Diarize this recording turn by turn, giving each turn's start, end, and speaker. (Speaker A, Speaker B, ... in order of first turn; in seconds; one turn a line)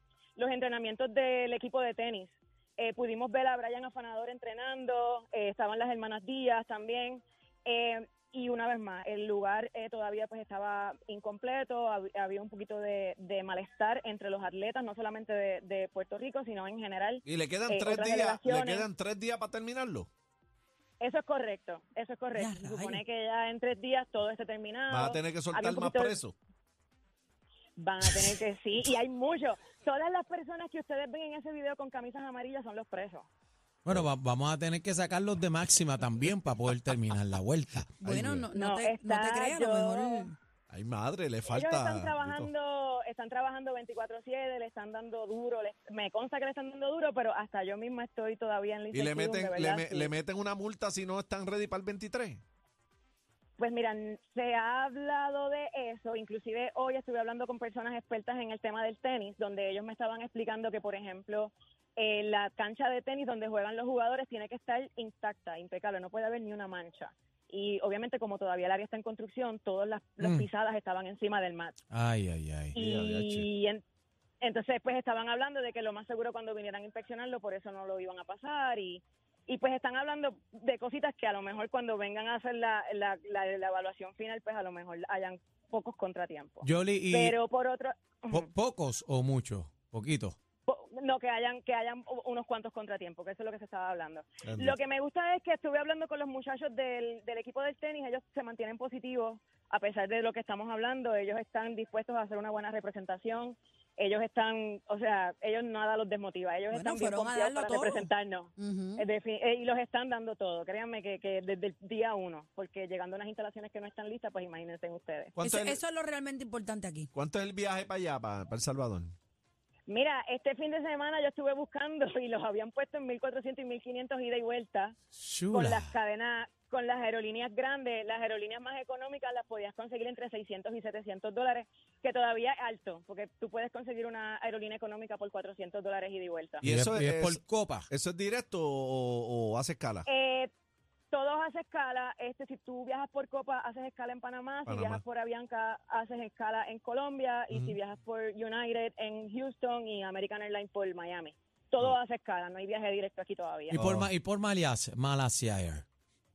Speaker A: 0.4-18.9
Speaker B: 17.3-20.1
Speaker A: 21.0-26.2
Speaker C: 22.4-23.0
Speaker B: 24.9-26.4
Speaker A: 27.8-33.3
Speaker D: 33.9-38.4
Speaker C: 38.0-40.4
Speaker A: 38.5-40.2
Speaker B: 40.7-42.5
Speaker A: 41.5-50.1
Speaker B: 48.9-52.4
Speaker A: 53.6-71.8
Speaker D: 70.2-70.5
Speaker D: 71.9-72.8
Speaker A: 72.8-73.8
Speaker B: 72.8-73.5
Speaker A: 74.4-88.5
Speaker D: 86.6-87.4
Speaker D: 88.3-90.4
Speaker A: 90.7-115.4
Speaker B: 94.5-94.8
Speaker C: 106.7-109.0
Speaker B: 115.4-115.8
Speaker C: 115.4-117.1
Speaker B: 117.1-119.2
Speaker A: 119.9-125.0
Speaker D: 125.2-125.9
Speaker A: 125.5-136.6
Speaker D: 136.6-137.9
Speaker B: 136.6-140.1
Speaker A: 140.1-140.5
Speaker A: 141.1-153.8
Speaker B: 144.7-145.0
Speaker D: 153.7-155.8
Speaker B: 153.8-154.1